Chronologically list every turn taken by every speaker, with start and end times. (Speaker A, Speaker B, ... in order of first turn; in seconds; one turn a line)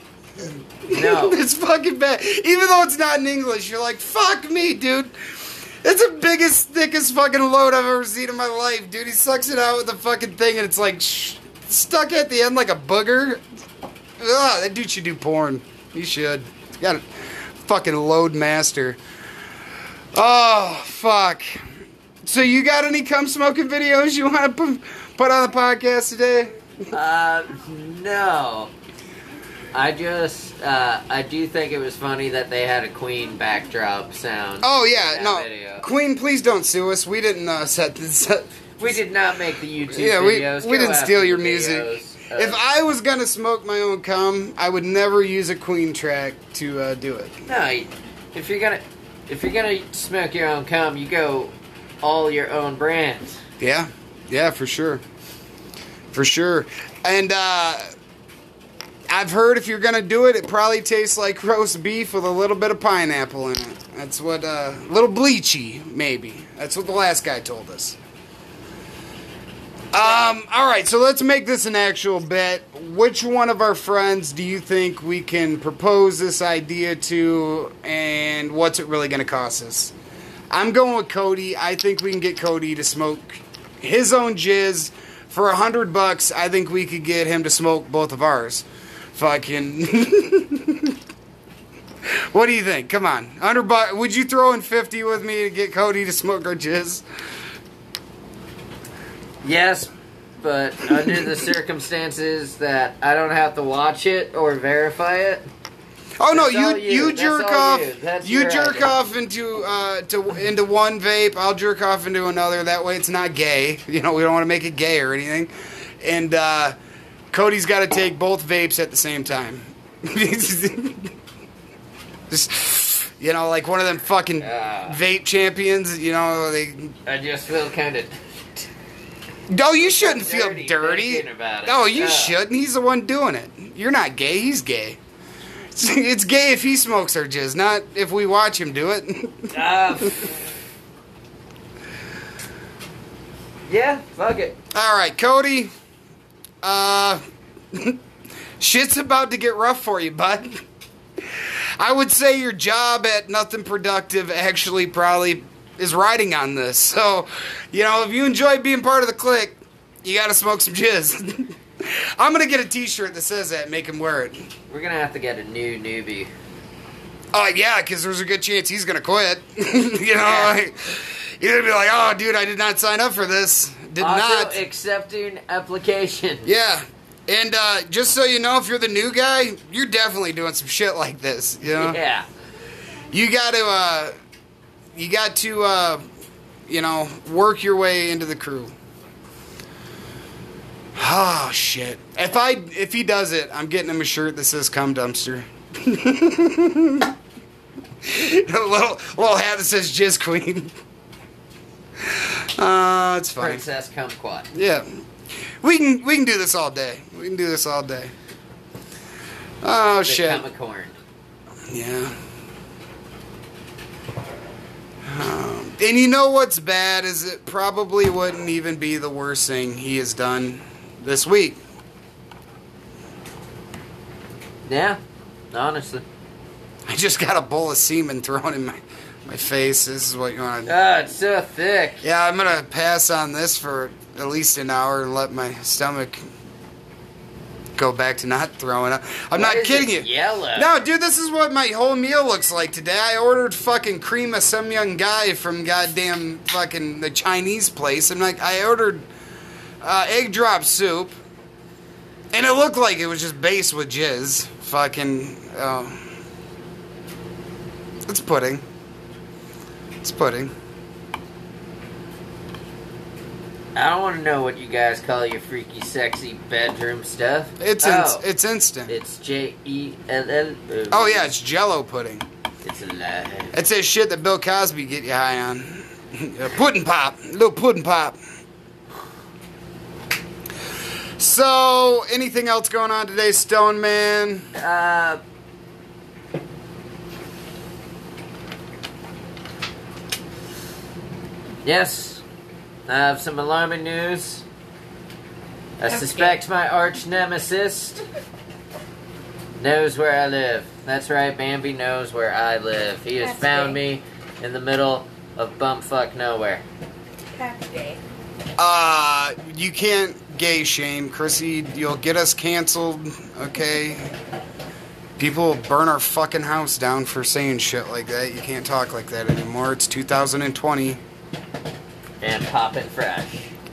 Speaker A: 0.4-13.4
Speaker B: 0.9-1.4
Speaker A: 14.2-17.1
Speaker A: 17.6-19.0
Speaker A: 20.1-21.6
Speaker A: 22.2-26.9
Speaker B: 26.9-28.7
Speaker B: 29.7-35.9
Speaker A: 34.6-38.6
Speaker B: 38.8-42.6
Speaker A: 39.9-47.4
Speaker B: 47.5-53.4
Speaker A: 53.6-55.0
Speaker A: 56.1-57.9
Speaker A: 59.1-68.0
Speaker A: 69.9-79.9
Speaker B: 70.0-70.4
Speaker A: 80.5-91.0
Speaker A: 92.1-97.0
Speaker B: 99.4-105.5
Speaker A: 106.2-116.8
Speaker B: 106.3-108.9
Speaker A: 117.3-121.1
Speaker A: 122.3-127.0
Speaker B: 124.4-125.0
Speaker B: 127.0-128.7
Speaker A: 129.5-135.0
Speaker B: 129.7-132.4
Speaker A: 135.7-140.1
Speaker B: 139.5-140.5
Speaker B: 143.7-144.6
Speaker A: 144.7-145.7
Speaker A: 146.6-147.2
Speaker A: 147.7-148.0
Speaker A: 148.6-150.6
Speaker A: 151.8-164.5
Speaker B: 164.7-166.3
Speaker A: 167.3-174.6
Speaker B: 170.2-170.6
Speaker B: 174.0-176.5
Speaker A: 176.4-182.0
Speaker B: 181.6-182.3
Speaker A: 183.1-184.1
Speaker A: 184.9-186.1
Speaker A: 186.7-188.7
Speaker A: 190.9-197.1
Speaker A: 198.0-200.7
Speaker A: 202.1-203.6
Speaker B: 203.4-204.5
Speaker A: 204.5-205.0
Speaker A: 205.6-208.1
Speaker A: 209.6-210.4
Speaker B: 210.1-211.0
Speaker A: 211.7-212.2
Speaker A: 215.1-221.6
Speaker B: 224.7-225.0
Speaker B: 225.5-226.1
Speaker A: 226.9-230.7
Speaker B: 230.7-232.0
Speaker A: 232.0-236.2
Speaker A: 237.7-249.1
Speaker B: 239.3-240.7
Speaker A: 249.8-251.2
Speaker A: 252.3-256.1
Speaker A: 258.1-258.6
Speaker A: 260.0-260.5
Speaker B: 263.7-268.2
Speaker A: 267.6-269.0
Speaker B: 268.9-271.3
Speaker A: 270.9-272.3
Speaker B: 272.6-273.6
Speaker A: 273.5-278.2
Speaker A: 281.2-284.5
Speaker B: 284.6-285.2
Speaker B: 291.6-292.2
Speaker B: 292.9-294.4
Speaker B: 295.8-298.0
Speaker C: 295.9-296.4
Speaker B: 299.6-306.6
Speaker C: 303.2-303.8
Speaker C: 307.3-308.0
Speaker A: 308.6-314.1
Speaker A: 315.2-321.0
Speaker B: 322.2-323.5